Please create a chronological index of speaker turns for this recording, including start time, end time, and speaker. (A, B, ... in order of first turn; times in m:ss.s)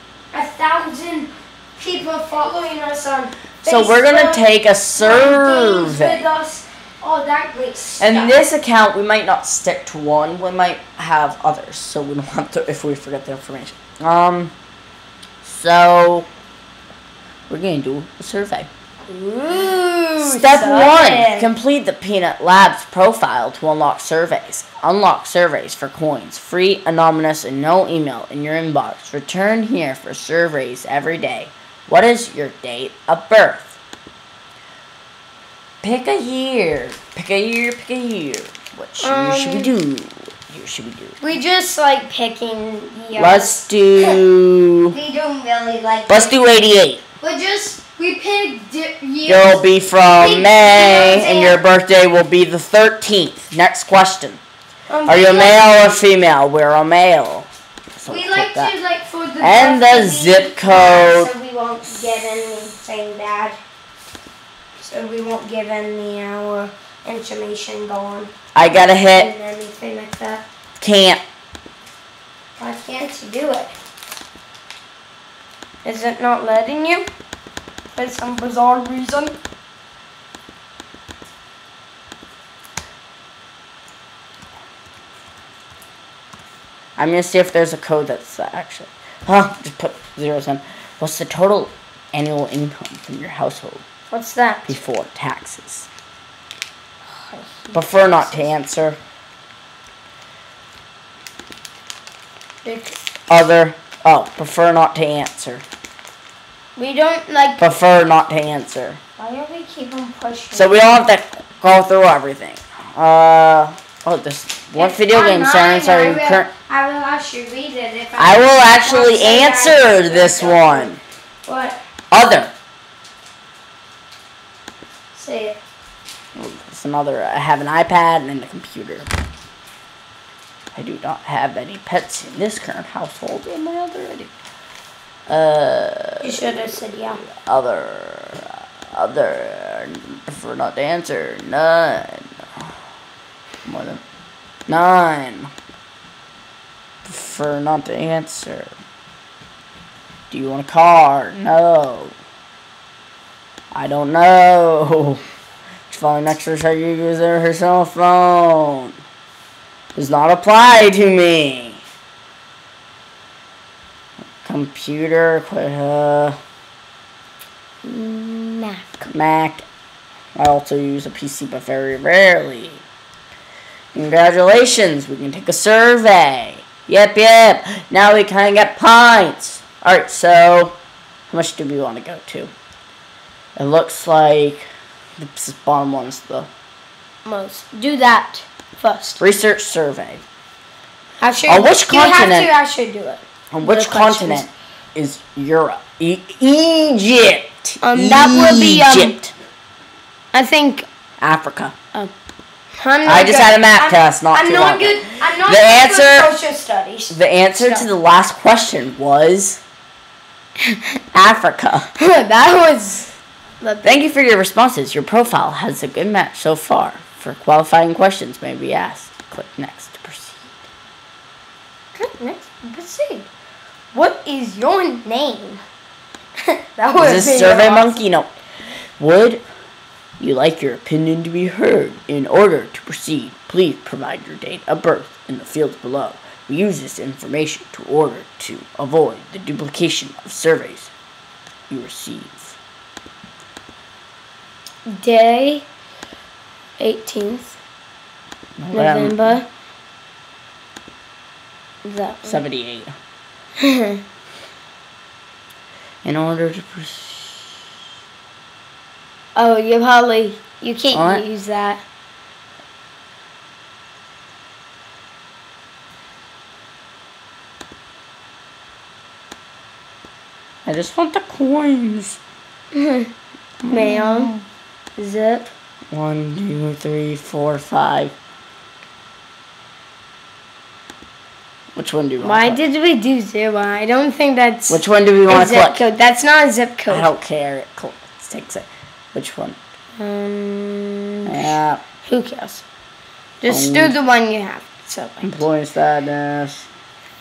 0:00.3-0:04.4 A
0:03.6-0:06.2 B
0:05.0-0:08.4 A
0:08.0-0:14.5 B
0:15.4-0:16.3 B
0:17.5-0:18.7 B
0:19.1-0:21.5 A
0:20.2-0:33.8 B
0:35.8-0:41.2 B
0:39.0-0:39.7 A
0:41.2-0:44.2 A
0:43.2-0:45.0 B
0:44.9-0:46.4 A
0:46.1-0:47.0 B
0:47.2-0:51.6 A
0:49.3-0:54.4 B
0:54.9-0:56.0 A
0:55.1-0:58.7 B
0:58.1-1:03.6 A
0:59.4-1:01.3 B
1:04.8-1:08.3 A
1:08.6-1:09.3 B
1:09.1-1:10.4 A
1:10.8-1:11.2 B
1:12.6-1:13.7 A
1:15.8-1:17.1 A
1:18.0-1:19.4 A
1:27.0-1:33.8 B
1:34.1-1:34.8 A
1:34.7-1:35.9 B
1:37.1-1:38.5 A
1:37.7-1:39.0 B
1:42.6-1:43.1 A
1:43.3-1:45.6 B
1:46.8-1:47.6 A
1:47.6-1:49.0 B
1:49.2-1:50.9 A
1:50.6-1:56.5 B
1:54.8-2:00.9 A
1:58.2-2:01.0 B
2:01.4-2:01.8 A
2:02.1-2:02.5 B
2:05.1-2:05.6 A
2:06.4-2:09.1 B
2:10.8-2:14.3 B
2:15.3-2:16.6 B
2:16.2-2:17.2 A
2:17.3-2:22.3 B
2:23.7-2:24.0 B
2:24.7-2:25.5 B
2:27.0-2:28.7 B
2:30.3-2:32.1 B
2:33.7-2:35.2 B
2:35.9-2:38.9 B
2:40.0-2:41.8 B
2:44.4-2:46.4 B
2:47.8-2:49.1 A
2:49.1-2:49.6 B
2:50.4-2:52.8 B
2:54.0-3:00.8 B
3:01.3-3:02.5 B
3:03.6-3:06.5 B
3:07.2-3:09.2 A
3:09.2-3:10.2 B
3:11.2-3:14.5 A
3:11.5-3:12.5 B
3:13.5-3:19.3 B
3:17.8-3:19.2 A
3:20.3-3:20.9 A
3:21.2-3:21.7 B
3:22.8-3:27.9 A
3:23.0-3:26.3 B
3:27.1-3:29.6 B
3:31.1-3:31.9 B
3:32.0-3:34.0 A
3:33.8-3:40.6 B
3:42.0-3:43.3 A
3:43.9-3:45.6 A
3:46.8-3:48.0 A
3:47.0-3:48.3 B
3:49.0-3:49.4 B
3:50.2-4:00.9 B
4:01.7-4:02.6 B
4:04.9-4:05.7 A
4:06.8-4:07.6 A
4:08.6-4:09.4 B
4:08.7-4:09.5 A
4:11.8-4:12.4 A
4:12.2-4:12.9 B
4:13.6-4:14.0 A
4:16.0-4:17.6 B
4:19.4-4:21.8 A
4:20.9-4:21.2 B
4:30.7-4:32.2 B
4:32.7-4:33.1 A
4:33.6-4:34.4 B
4:33.7-4:34.3 A
4:35.0-4:35.5 A
4:35.9-4:38.1 B
4:41.8-4:42.6 B
4:42.2-4:47.1 A
4:44.7-4:45.8 B
4:46.9-4:49.6 B
4:50.0-4:52.6 A
4:51.3-4:51.8 B
4:53.4-4:55.4 A
4:53.5-4:54.0 B
4:55.2-4:56.7 B